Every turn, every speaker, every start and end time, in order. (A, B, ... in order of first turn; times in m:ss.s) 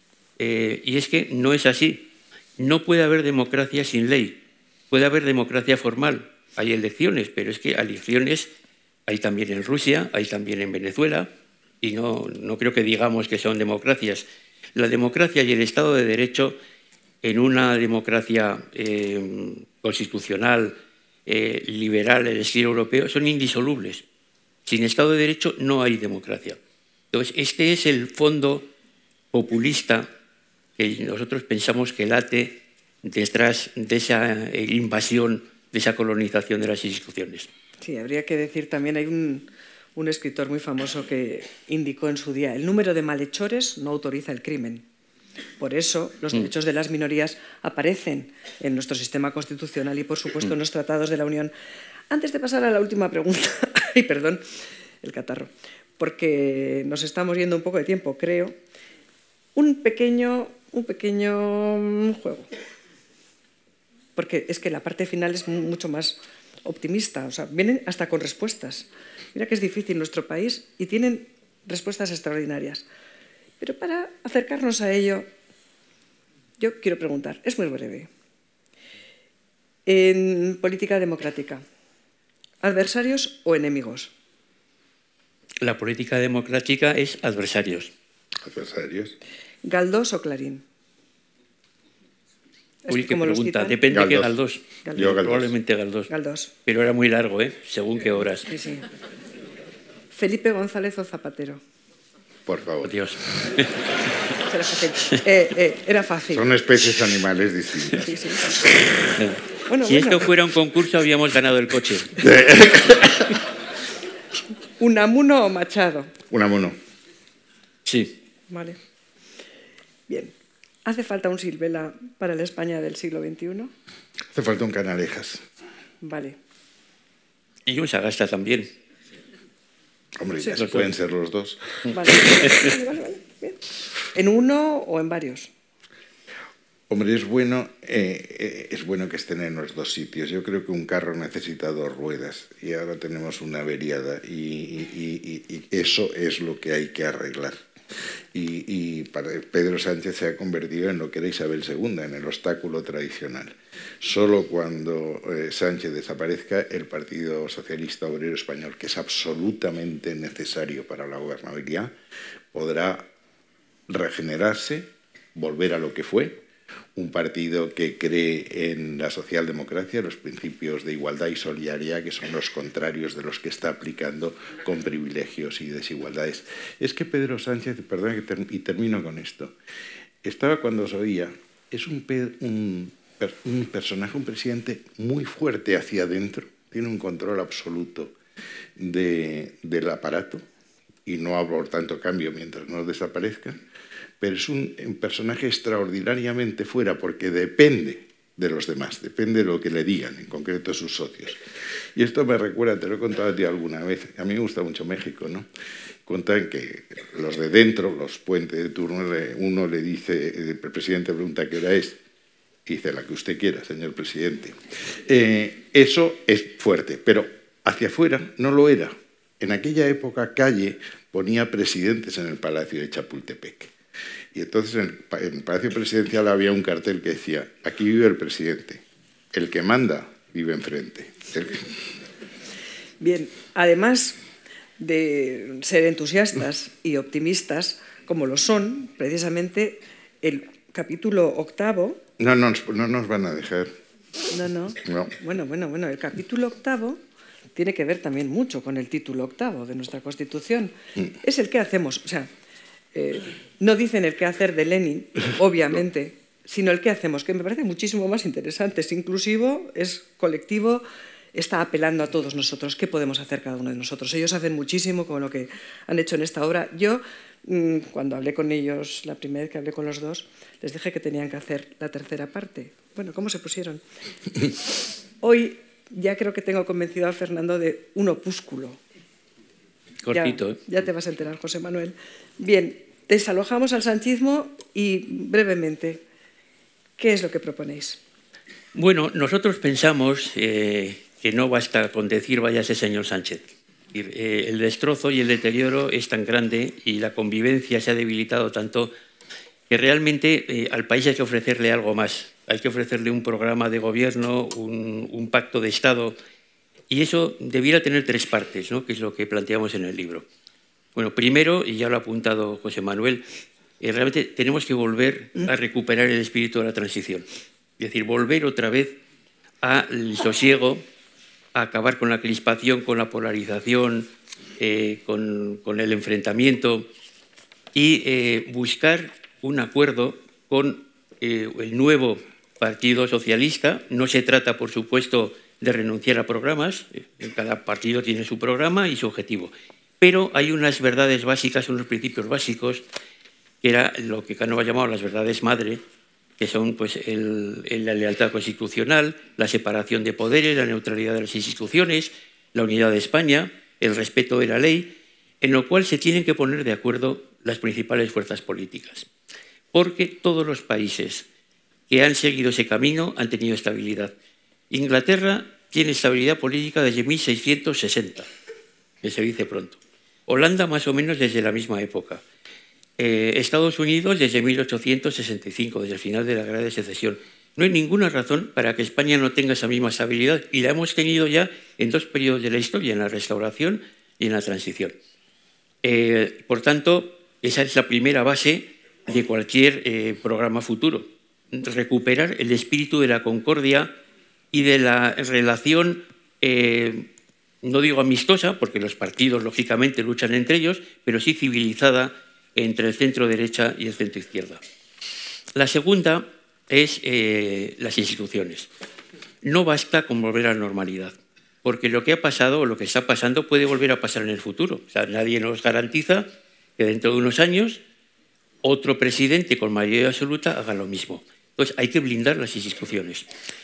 0:00.4-0:08.5 A
0:09.1-0:16.6 A
0:17.2-0:20.7 A
0:21.2-0:24.0 A
0:24.6-0:26.6 A
0:27.1-0:28.7 A
0:29.3-0:30.1 A
0:30.8-0:37.5 A
0:37.8-0:44.8 B
0:45.6-0:51.5 B
0:52.1-0:54.4 B
0:55.0-0:58.5 B
0:59.6-1:02.5 B
1:04.2-1:12.8 B
1:13.6-1:15.3 B
1:16.6-1:18.1 B
1:19.9-1:21.6 B
1:22.6-1:24.1 B
1:25.6-1:27.9 A
1:28.4-1:29.2 C
1:29.6-1:30.6 B
1:32.8-1:33.8 B
1:32.9-1:36.1 A
1:33.9-1:34.4 C
1:34.8-1:35.2 B
1:35.0-1:35.5 C
1:36.1-1:36.5 B
1:36.6-1:38.5 A
1:38.5-1:38.8 B
1:40.1-1:41.6 B
1:42.5-1:43.0 C
1:42.8-1:43.8 A
1:44.4-1:46.5 B
1:46.3-1:48.1 C
1:48.0-1:48.6 B
1:49.2-1:52.3 A
1:49.7-1:50.3 B
1:52.2-1:53.3 C
1:54.8-1:56.1 B
1:56.3-1:56.8 C
1:57.8-1:58.2 A
1:58.5-1:58.8 B
2:00.1-2:00.3 B
2:00.8-2:03.7 B
2:04.3-2:05.4 C
2:06.0-2:06.4 B
2:07.6-2:08.7 A
2:10.2-2:11.8 C
2:10.6-2:10.9 A
2:11.9-2:13.6 B
2:14.1-2:15.5 B
2:16.9-2:27.6 C
2:28.3-2:41.9 C
2:42.5-2:43.1 C
2:43.9-2:46.4 C
2:47.0-2:59.5 C
3:00.2-3:08.1 C
3:08.8-3:10.4 C
3:11.0-3:13.6 C
3:14.2-3:21.4 C
3:21.9-3:25.5 C
3:26.0-3:32.0 C
3:32.6-3:43.7 C
3:44.3-3:51.8 C
3:53.0-3:54.2 B
3:54.8-4:02.0 B
4:02.2-4:03.8 C
4:04.3-4:07.0 B
4:04.8-4:05.1 C
4:07.5-4:12.3 B
4:12.9-4:33.8 B
4:35.2-4:38.8 B
4:40.0-4:40.6 A
4:40.1-4:46.0 B
4:47.0-4:48.0 B
4:48.7-4:58.9 A
4:59.7-5:06.1 A
5:06.9-5:10.2 A
5:10.9-5:13.2 A
5:13.8-5:17.2 A
5:17.8-5:19.0 A
5:19.6-5:20.8 A
5:21.5-5:26.9 A
5:27.7-5:42.8 A
5:43.6-5:45.8 A
5:46.4-5:59.1 A
5:59.7-6:01.3 A
6:01.9-6:04.1 A
6:04.7-6:08.3 A
6:09.0-6:12.2 A
6:13.0-6:25.0 A
6:25.8-6:33.9 A
6:34.5-6:37.1 A
6:37.6-6:44.6 A
6:45.5-6:48.7 A
6:49.4-6:56.2 A
6:56.8-6:57.8 A
6:58.6-7:03.3 A